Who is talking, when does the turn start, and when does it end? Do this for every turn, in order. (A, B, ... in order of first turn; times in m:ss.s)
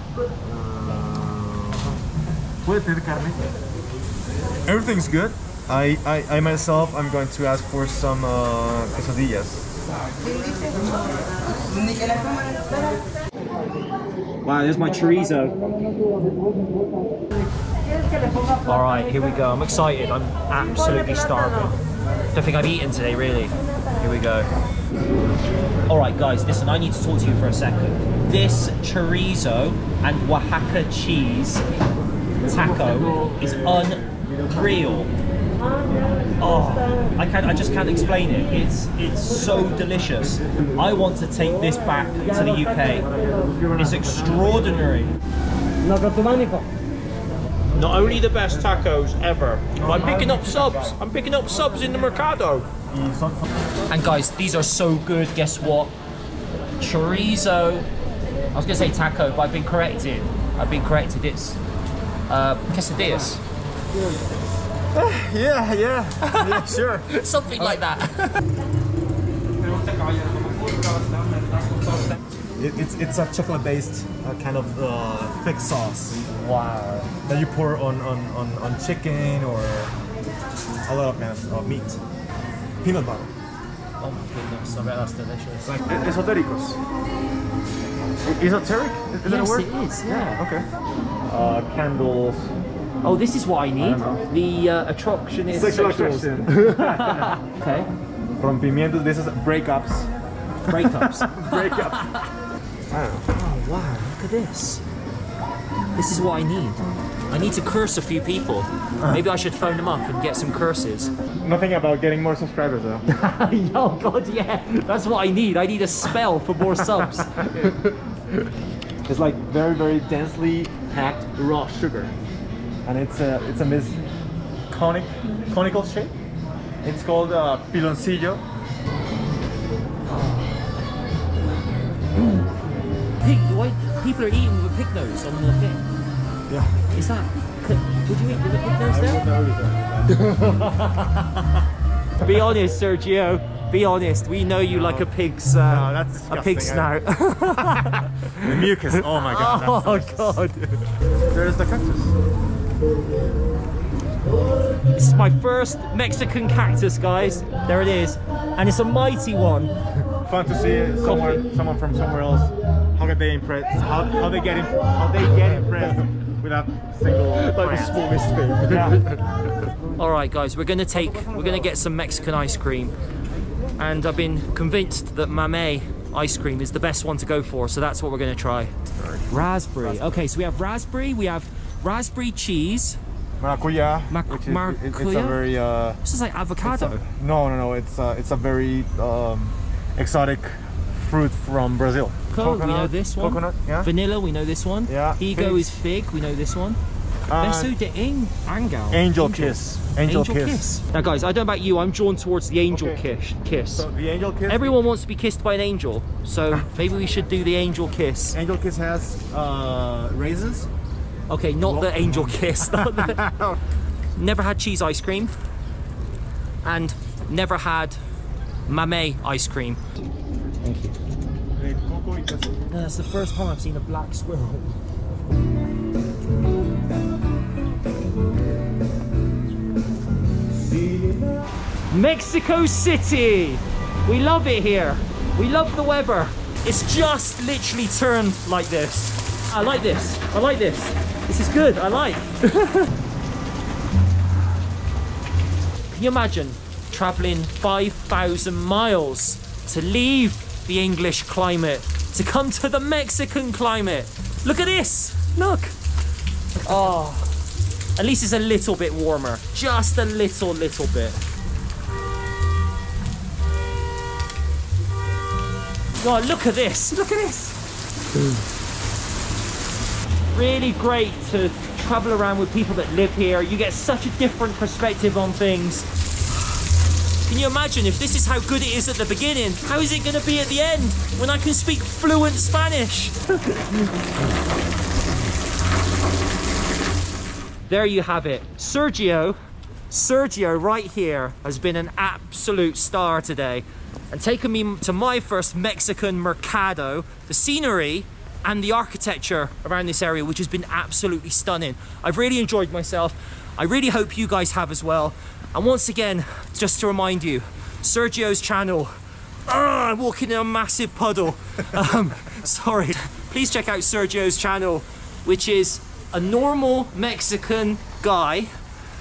0:00.4-0:02.0 A
0:02.6-0:03.5 A
0:04.6-0:09.7 A
0:14.4-0:15.6 B
0:18.6-0:21.8 B
0:22.3-0:24.5 B
0:25.9-0:31.6 B
0:32.4-0:35.1 B
0:33.3-0:33.8 A
0:36.4-0:43.1 B
0:43.2-0:44.8 A
0:43.7-0:45.2 B
0:47.7-0:52.7 B
0:49.7-0:51.0 A
0:52.9-0:53.4 A
0:53.9-0:55.9 B
0:56.8-0:57.9 B
0:58.5-1:01.6 B
1:02.3-1:03.4 B
1:04.9-1:07.8 A
1:06.2-1:08.4 B
1:12.6-1:16.2 A
1:16.3-1:17.1 B
1:17.2-1:19.9 A
1:20.8-1:22.0 A
1:22.8-1:23.3 A
1:24.0-1:25.7 B
1:25.6-1:26.8 A
1:28.2-1:30.7 A
1:29.2-1:30.4 B
1:31.3-1:32.5 A
1:33.0-1:37.9 B
1:33.8-1:34.2 A
1:35.5-1:37.4 A
1:38.4-1:40.1 A
1:40.7-1:42.3 B
1:40.7-1:42.0 A
1:42.9-1:43.3 A
1:43.3-1:44.8 B
1:46.0-1:51.1 B
1:51.4-1:53.0 A
1:53.1-1:57.4 B
1:56.7-1:58.0 A
1:59.0-2:02.1 A
2:02.8-2:04.0 A
2:04.7-2:06.1 A
2:06.8-2:08.4 A
2:10.1-2:10.6 B
2:12.2-2:12.5 B
2:13.2-2:15.9 B
2:16.5-2:16.8 A
2:16.9-2:19.2 B
2:18.8-2:20.8 A
2:20.3-2:21.4 B
2:22.2-2:30.8 B
2:24.7-2:27.0 A
2:27.6-2:30.5 A
2:31.3-2:32.1 A
2:34.9-2:39.8 B
2:40.2-2:48.1 A
2:41.0-2:41.4 B
2:47.4-2:49.2 B
2:48.6-2:49.1 A
2:50.0-2:52.9 B
2:53.8-2:58.7 B
2:59.0-3:00.2 A
2:59.3-3:03.0 B
3:03.4-3:06.0 A
3:04.1-3:05.5 B
3:06.0-3:07.0 B
3:06.6-3:13.9 A
3:12.3-3:16.8 B
3:14.9-3:15.8 A
3:17.3-3:17.7 A
3:17.4-3:23.9 B
3:18.9-3:20.7 A
3:22.7-3:23.0 A
3:23.7-3:24.8 A
3:24.5-3:28.4 B
3:28.3-3:30.7 A
3:31.3-3:33.2 B
3:31.6-3:33.6 A
3:34.2-3:35.3 B
3:36.6-3:38.0 B
3:38.7-3:39.8 B
3:40.6-3:41.0 B
3:41.5-3:42.5 A
3:42.7-3:44.8 B
3:50.8-3:51.2 A
3:51.9-4:02.9 B
4:05.9-4:15.7 B
4:16.6-4:17.3 B
4:18.0-4:21.2 B
4:25.9-4:27.6 B
4:30.3-4:35.9 B
4:37.2-4:43.9 B
4:47.6-4:49.4 B
4:49.9-5:08.9 B
5:09.4-5:18.5 B